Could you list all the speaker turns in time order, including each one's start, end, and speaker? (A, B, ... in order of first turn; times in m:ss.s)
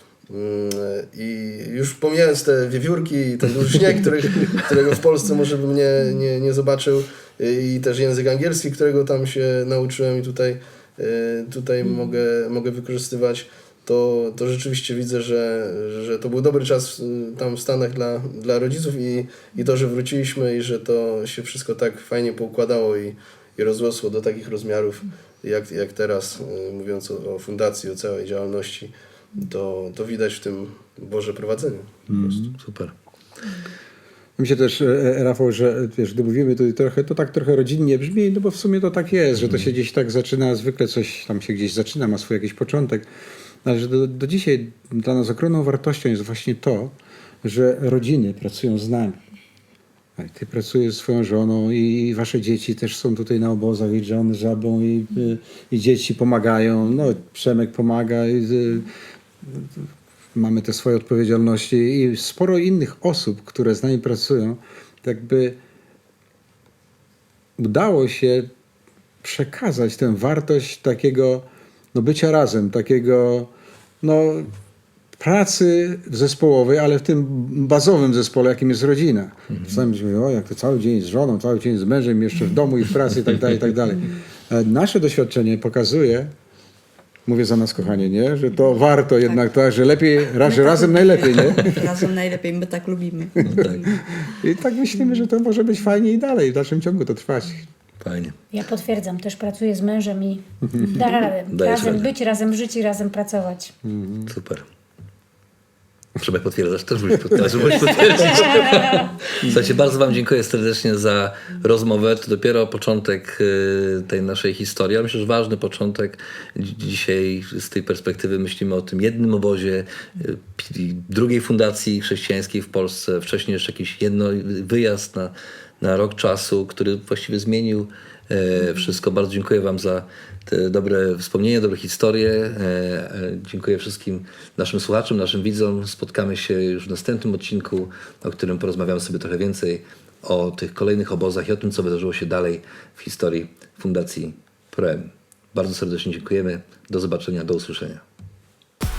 0:00.3-0:31.9 A
0:32.1-0:32.6 B
0:32.6-0:32.9 C
0:34.4-0:43.0 B
0:43.6-0:49.2 B
0:50.2-0:58.9 B
0:59.4-1:05.6 B
1:07.6-1:08.5 B
1:09.2-1:13.5 B
1:14.0-1:14.5 B
1:15.2-1:26.3 B
1:27.2-1:31.8 B
1:30.4-1:33.4 D
1:33.4-1:37.6 B
1:33.5-1:33.9 C
1:38.0-1:38.4 C
1:38.5-1:43.7 E
1:41.5-1:42.1 C
1:43.8-1:44.3 B
1:44.3-1:44.6 C
1:46.2-2:28.0 C
1:48.0-1:49.1 E